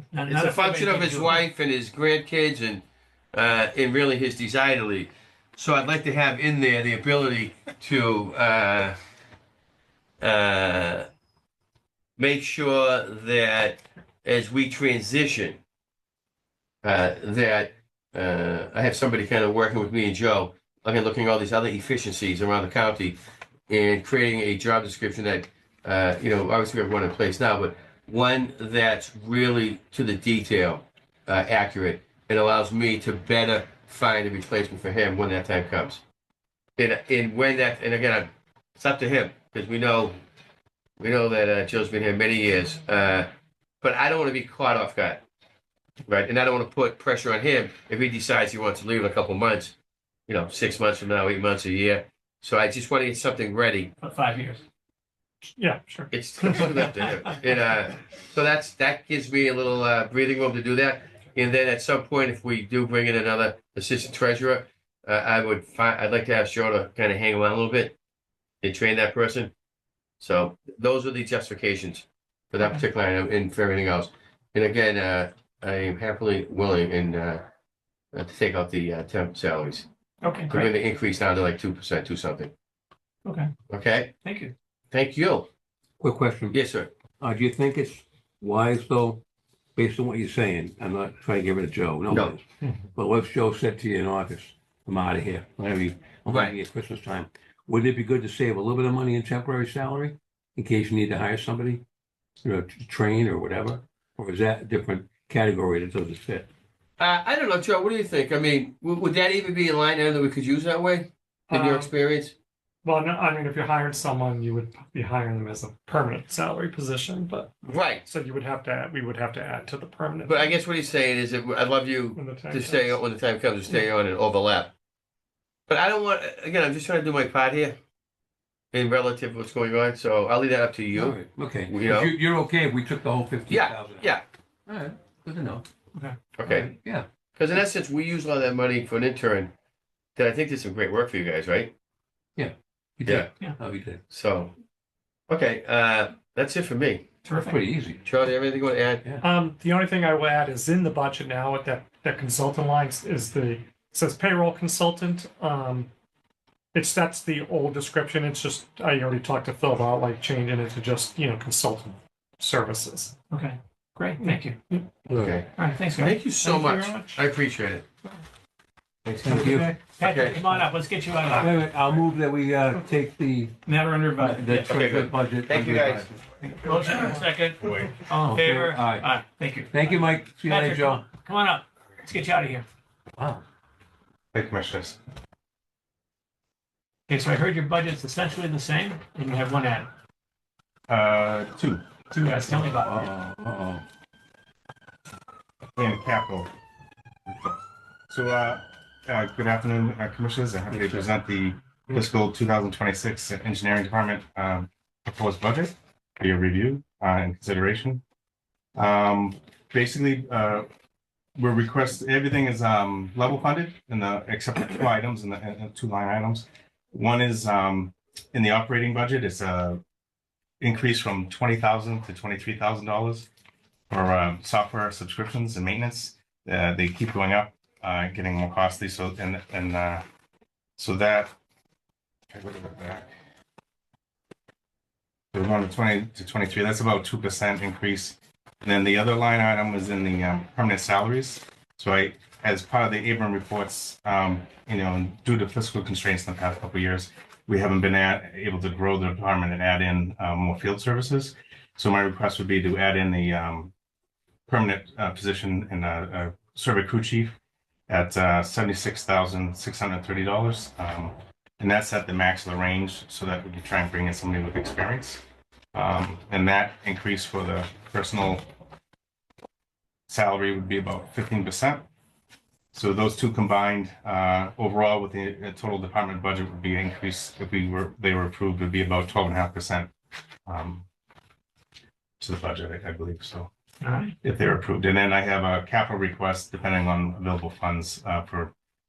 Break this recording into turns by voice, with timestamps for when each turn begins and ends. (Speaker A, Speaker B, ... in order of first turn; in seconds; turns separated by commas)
Speaker A: 0.1-1.4, Speaker B: 0.2-9.0, Speaker B: 10.2-11.1, Speaker B: 12.2-15.6, Speaker B: 16.8-23.2, Speaker B: 23.7-36.0, Speaker B: 36.8-40.2, Speaker B: 41.0-43.3, Speaker B: 43.8-45.2, Speaker B: 46.1-49.7, Speaker B: 50.3-53.9, Speaker A: 54.0-54.6, Speaker C: 55.5-57.3, Speaker B: 56.1-67.9, Speaker B: 68.6-69.5, Speaker B: 70.2-77.4, Speaker B: 78.1-79.9, Speaker A: 80.2-80.7, Speaker B: 80.5-82.5, Speaker A: 83.2-83.5, Speaker B: 83.7-84.1, Speaker A: 84.2-84.5, Speaker B: 84.9-85.5, Speaker D: 86.0-86.6, Speaker B: 86.5-86.9, Speaker D: 87.2-89.2, Speaker D: 89.8-92.4, Speaker B: 92.1-92.3, Speaker D: 93.0-101.8, Speaker B: 96.3-96.5, Speaker D: 102.4-106.5, Speaker B: 107.0-112.3, Speaker C: 111.5-111.9, Speaker C: 112.8-120.5, Speaker B: 117.7-118.0, Speaker B: 120.2-124.7, Speaker C: 122.1-123.0, Speaker B: 125.7-127.8, Speaker B: 128.7-132.1, Speaker D: 130.9-134.1, Speaker B: 133.5-134.2, Speaker D: 134.7-135.7, Speaker B: 136.4-136.7, Speaker D: 136.4-137.1, Speaker B: 137.3-139.5, Speaker B: 140.2-141.7, Speaker D: 142.3-144.0, Speaker B: 144.1-144.5, Speaker B: 145.3-147.0, Speaker A: 147.2-147.6, Speaker D: 147.3-148.0, Speaker B: 148.0-149.0, Speaker C: 149.2-155.9, Speaker C: 156.7-163.1, Speaker A: 163.3-164.6, Speaker C: 164.2-164.9, Speaker D: 165.1-165.4, Speaker B: 165.1-167.8, Speaker A: 165.6-166.2, Speaker C: 166.3-167.2, Speaker B: 169.1-170.6, Speaker D: 169.2-169.7, Speaker A: 169.3-171.6, Speaker D: 171.3-173.6, Speaker A: 173.7-174.8, Speaker D: 174.2-176.1, Speaker B: 174.6-176.2, Speaker E: 176.4-178.0, Speaker A: 176.6-182.7, Speaker D: 178.1-179.1, Speaker D: 179.7-181.1, Speaker D: 183.2-183.4, Speaker E: 184.3-185.0, Speaker A: 187.1-189.9, Speaker E: 190.9-191.8, Speaker A: 192.1-193.1, Speaker D: 192.5-193.8, Speaker E: 195.8-196.5, Speaker E: 198.1-208.0, Speaker D: 200.7-201.1, Speaker E: 208.8-210.7, Speaker E: 211.4-219.8, Speaker E: 220.6-223.3, Speaker E: 223.9-230.0, Speaker E: 230.8-231.3, Speaker E: 232.3-233.1, Speaker E: 235.3-253.7, Speaker E: 254.5-257.3, Speaker E: 257.9-265.2, Speaker E: 265.7-268.4, Speaker E: 270.1-271.9, Speaker E: 272.7-279.9, Speaker E: 280.5-280.9, Speaker E: 282.2-283.5, Speaker A: 283.8-284.1, Speaker E: 284.2-288.5